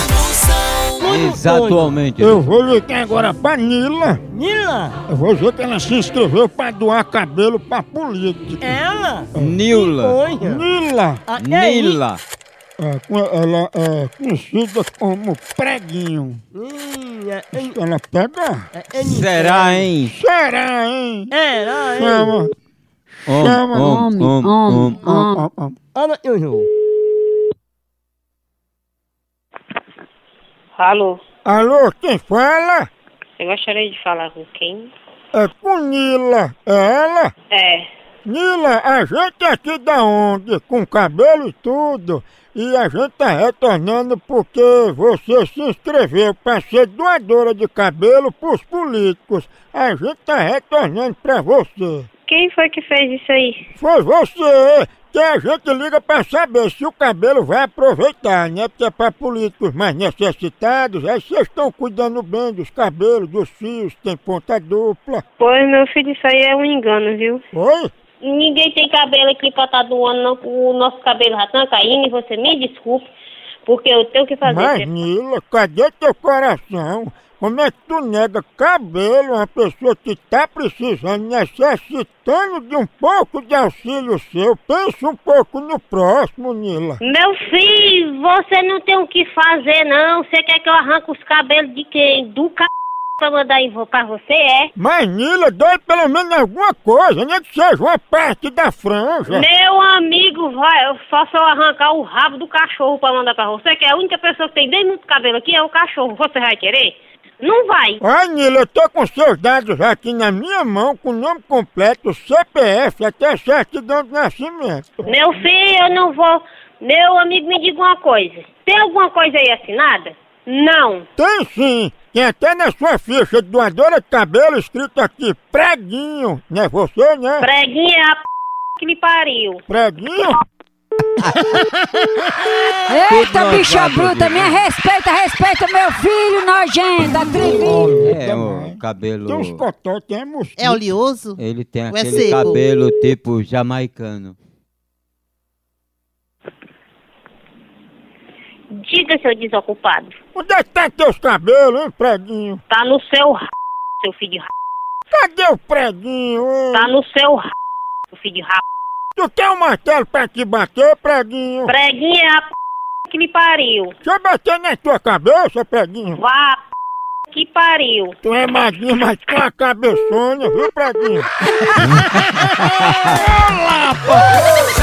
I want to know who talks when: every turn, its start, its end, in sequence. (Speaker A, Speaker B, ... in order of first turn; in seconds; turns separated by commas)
Speaker A: 1.0-2.0, Speaker B: 1.0-2.5, Speaker C: 2.2-4.2, Speaker A: 4.3-5.0, Speaker C: 5.1-8.8, Speaker A: 8.6-10.7, Speaker C: 9.3-9.6, Speaker B: 9.3-10.2, Speaker C: 10.4-11.2, Speaker A: 11.3-12.0, Speaker B: 11.3-12.2, Speaker C: 12.8-16.4, Speaker A: 16.5-17.8, Speaker C: 17.5-18.7, Speaker A: 18.7-19.9, Speaker B: 19.0-20.1, Speaker C: 20.1-21.3, Speaker A: 21.3-22.3, Speaker C: 21.9-22.5, Speaker B: 23.3-25.1, Speaker C: 23.3-24.1, Speaker D: 23.8-25.5, Speaker C: 25.0-25.8, Speaker A: 25.9-26.7, Speaker E: 30.8-31.2, Speaker C: 31.4-32.9, Speaker E: 33.4-34.9, Speaker C: 35.3-37.3, Speaker E: 37.5-37.9, Speaker C: 38.2-52.1, Speaker E: 52.3-53.6, Speaker C: 53.8-65.2, Speaker E: 65.4-67.4, Speaker C: 67.5-67.9, Speaker E: 68.2-73.1, Speaker E: 73.7-74.9, Speaker C: 74.4-87.0, Speaker E: 87.0-94.7, Speaker C: 94.8-99.5, Speaker E: 99.3-108.0, Speaker C: 108.0-115.1, Speaker E: 115.1-121.1, Speaker C: 121.2-127.5, Speaker E: 127.4-128.2, Speaker E: 128.8-129.6, Speaker C: 129.7-130.4, Speaker D: 132.9-138.0, Speaker B: 133.1-134.6, Speaker C: 137.4-140.9, Speaker B: 137.9-139.6, Speaker F: 140.6-142.6, Speaker B: 141.4-144.4, Speaker E: 148.7-150.2, Speaker C: 150.3-152.6, Speaker E: 152.7-153.5, Speaker E: 154.0-154.5, Speaker C: 155.1-156.9, Speaker E: 156.7-157.5, Speaker E: 158.1-158.6, Speaker C: 159.2-161.7, Speaker E: 161.7-162.5, Speaker E: 163.1-163.9, Speaker C: 164.0-166.2, Speaker E: 166.2-166.6, Speaker E: 167.3-168.2, Speaker C: 168.2-171.3, Speaker B: 171.8-173.2, Speaker C: 172.0-174.3